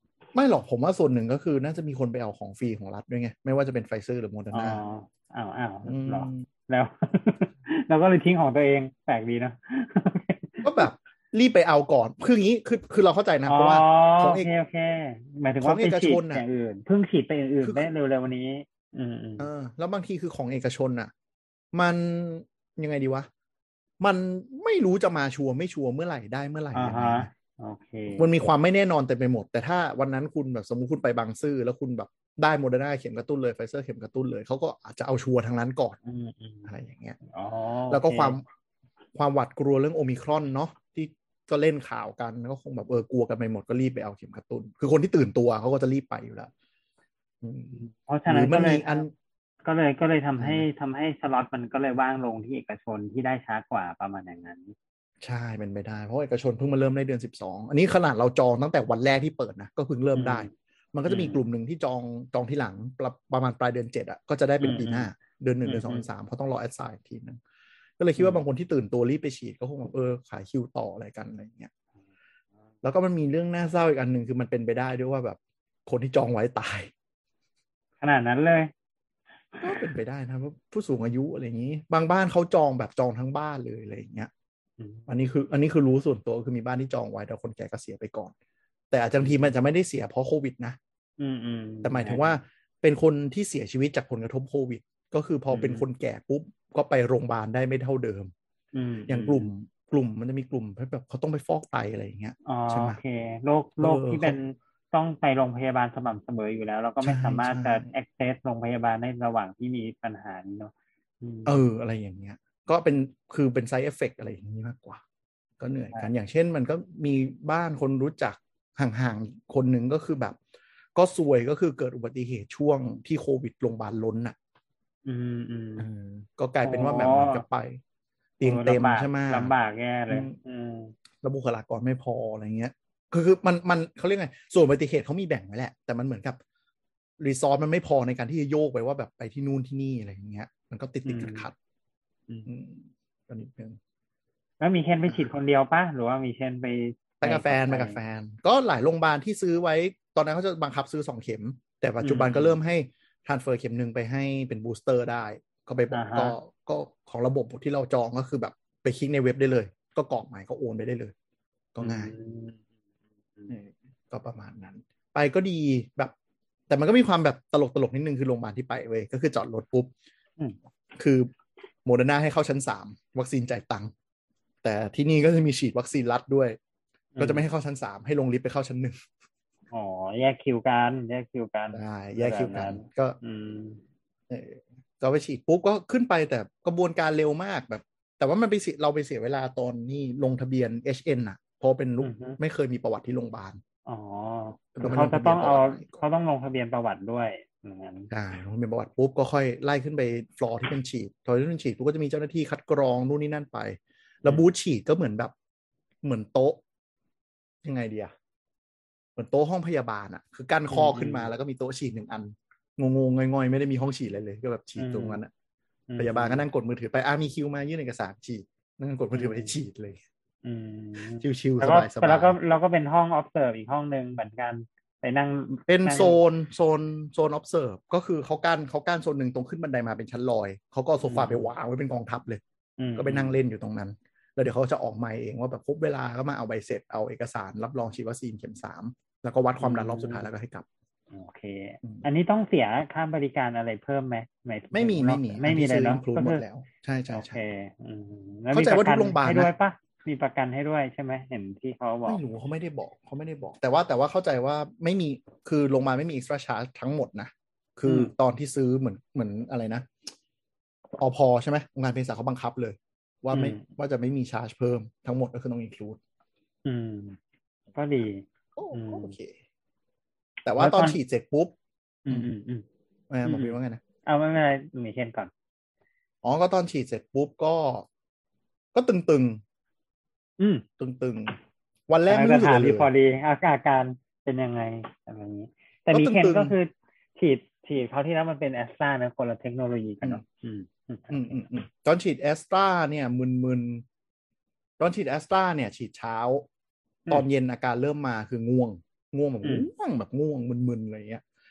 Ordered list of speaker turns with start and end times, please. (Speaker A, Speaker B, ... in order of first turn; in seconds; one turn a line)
Speaker A: 0.3-4.8
Speaker B: 4.5-10.9
Speaker A: 5.8-6.5
Speaker A: 10.6-14.5
Speaker B: 13.5-19.5
Speaker A: 15.6-16.4
Speaker A: 17.6-17.9
Speaker A: 19.4-21.1
Speaker A: 21.7-23.3
Speaker A: 24.0-27.3
Speaker B: 26.7-28.3
Speaker A: 28.2-36.0
Speaker B: 36.0-38.4
Speaker A: 36.7-37.2
Speaker A: 37.9-38.4
Speaker A: 39.1-46.5
Speaker A: 47.4-47.8
Speaker B: 47.7-49.0
Speaker A: 48.3-49.1
Speaker B: 49.6-54.8
Speaker A: 50.4-50.7
Speaker A: 55.2-67.4
Speaker B: 60.2-60.5
Speaker B: 61.1-61.4
Speaker B: 64.6-65.1
Speaker B: 65.7-66.0
Speaker A: 68.0-71.7
Speaker B: 68.2-68.4
Speaker A: 72.8-76.9
Speaker B: 78.0-78.7
Speaker B: 79.5-79.9
Speaker A: 79.6-84.3
Speaker B: 84.8-85.1
Speaker A: 85.1-88.3
Speaker A: 88.9-90.8
Speaker B: 89.2-89.5
Speaker B: 91.2-92.4
Speaker A: 91.8-98.3
Speaker B: 95.5-95.8
Speaker B: 98.7-99.5
Speaker A: 99.1-103.0
Speaker B: 102.5-111.6
Speaker A: 103.8-104.4
Speaker A: 107.0-107.9
Speaker A: 111.5-115.0
Speaker A: 115.6-120.4
Speaker A: 121.0-124.4
Speaker B: 125.0-125.9
Speaker A: 125.8-127.8
Speaker B: 126.6-127.4
Speaker A: 128.4-129.5
Speaker B: 128.4-130.9
Speaker A: 130.1-130.4
Speaker A: 131.2-136.4
Speaker A: 137.2-141.6
Speaker B: 141.1-141.5
Speaker A: 142.5-143.8
Speaker B: 144.6-148.0
Speaker A: 147.2-161.1
Speaker B: 152.0-152.6
Speaker B: 155.9-156.4
Speaker A: 161.8-162.1
Speaker B: 161.8-162.6
Speaker A: 163.5-166.1
Speaker A: 166.7-169.9
Speaker A: 171.0-171.3
Speaker A: 171.9-173.9
Speaker A: 174.6-176.6
Speaker B: 177.2-177.4
Speaker A: 177.2-179.0
Speaker B: 179.7-183.8
Speaker A: 181.7-183.2
Speaker A: 184.3-193.6
Speaker B: 192.0-192.4
Speaker B: 193.9-198.1
Speaker A: 194.8-196.0
Speaker A: 198.1-205.3
Speaker A: 206.0-206.6
Speaker A: 207.6-208.1
Speaker A: 209.2-215.3
Speaker B: 210.7-211.3
Speaker B: 214.8-215.2
Speaker B: 215.9-216.4
Speaker A: 216.0-220.0
Speaker B: 219.1-219.5
Speaker B: 220.4-226.2
Speaker A: 221.2-222.4
Speaker A: 225.7-232.4
Speaker B: 231.0-231.5
Speaker B: 232.8-233.4
Speaker A: 233.0-240.7
Speaker B: 239.6-240.3
Speaker B: 241.1-246.4
Speaker A: 244.7-247.4
Speaker B: 247.1-252.2
Speaker A: 248.5-249.5
Speaker A: 252.1-259.9
Speaker B: 257.9-258.1
Speaker A: 261.0-266.0
Speaker B: 263.3-263.6
Speaker B: 266.6-267.2
Speaker B: 267.8-269.1
Speaker A: 268.6-269.4
Speaker A: 270.4-271.5
Speaker B: 270.6-271.0
Speaker B: 272.1-272.6
Speaker A: 273.1-273.8
Speaker B: 273.2-275.3
Speaker A: 276.2-277.9
Speaker A: 278.7-279.4
Speaker B: 280.4-280.6
Speaker A: 280.8-281.4
Speaker A: 281.9-282.9
Speaker B: 282.1-291.5
Speaker A: 285.9-286.6
Speaker A: 291.1-293.8
Speaker A: 294.8-296.5
Speaker A: 297.1-301.2
Speaker B: 299.4-299.7